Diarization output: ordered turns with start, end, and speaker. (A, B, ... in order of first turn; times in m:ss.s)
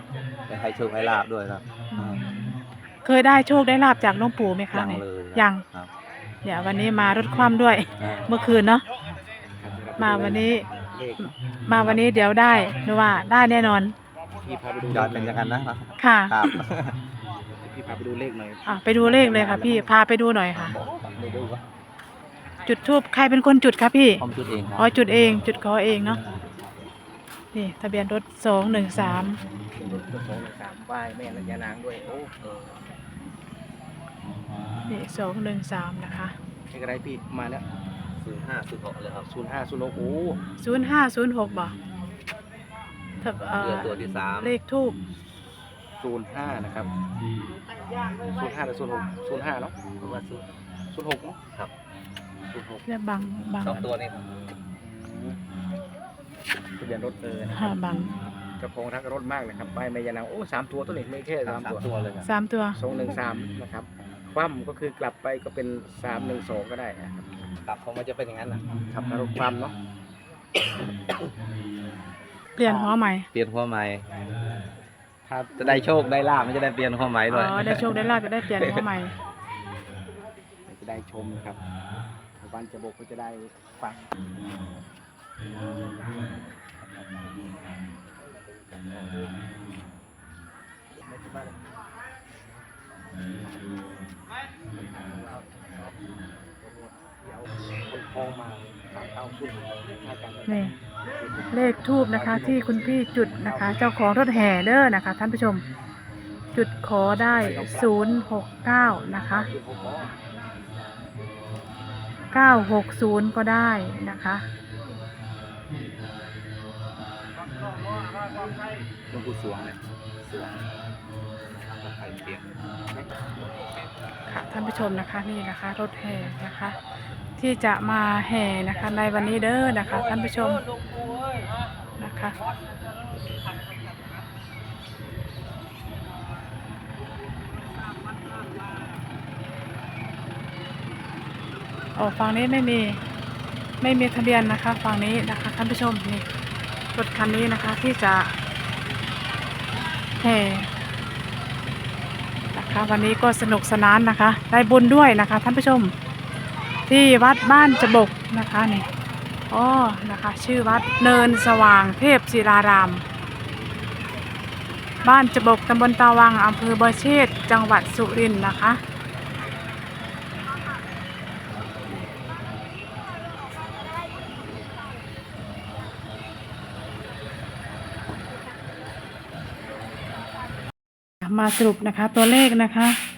0:00.5-0:02.2 A
0:01.9-0:05.6 B
0:04.7-0:05.9 A
0:06.4-0:08.8 B
0:09.6-0:11.3 C
0:10.0-0:10.7 B
0:11.2-0:13.9 B
0:14.4-0:15.5 C
0:14.9-0:17.0 A
0:16.0-0:16.4 B
0:17.6-0:19.9 C
0:18.6-0:20.7 B
0:20.5-0:21.4 A
0:20.8-0:21.6 C
0:22.6-0:24.2 B
0:24.2-0:24.9 A
0:24.8-0:26.2 B
0:27.5-0:29.4 B
0:29.8-0:32.8 C
0:34.9-0:36.3 B
0:36.7-0:37.6 C
0:38.2-0:39.3 A
0:39.2-0:40.4 C
0:40.6-0:41.7 B
0:43.2-0:45.0 B
0:43.5-0:44.5 A
0:46.0-0:46.9 C
0:48.2-0:49.7 C
0:50.0-0:50.4 A
0:50.9-0:51.4 C
0:52.5-0:52.8 C
0:52.9-0:53.8 B
0:53.6-0:54.2 A
0:54.8-0:55.4 C
0:56.8-0:57.8 C
0:57.5-0:58.1 B
0:58.6-1:01.8 C
1:01.4-1:02.3 A
1:02.2-1:02.8 B
1:02.8-1:07.3 C
1:07.6-1:08.6 A
1:08.9-1:09.7 C
1:12.6-1:13.3 B
1:12.6-1:12.9 C
1:13.3-1:14.0 A
1:15.2-1:15.9 C
1:15.6-1:18.8 A
1:17.3-1:19.1 B
1:20.7-1:21.6 C
1:22.4-1:24.1 C
1:26.8-1:27.3 C
1:28.2-1:29.0 C
1:31.0-1:31.6 C
1:34.8-1:35.9 C
1:36.6-1:43.8 C
1:40.5-1:40.7 B
1:41.5-1:45.6 B
1:46.5-1:49.5 B
1:47.3-1:48.0 C
1:49.1-1:50.1 C
1:52.3-1:54.4 B
1:59.1-1:59.8 A
2:01.8-2:02.4 A
2:04.3-2:06.8 B
2:07.4-2:10.6 B
2:12.0-2:12.3 B
2:22.0-2:23.0 B
2:23.8-2:26.2 B
2:26.9-2:28.3 B
2:30.2-2:30.7 B
2:32.5-2:35.9 B
2:36.9-2:38.9 B
2:39.5-2:43.0 B
2:45.0-2:48.8 B
3:01.2-3:03.0 B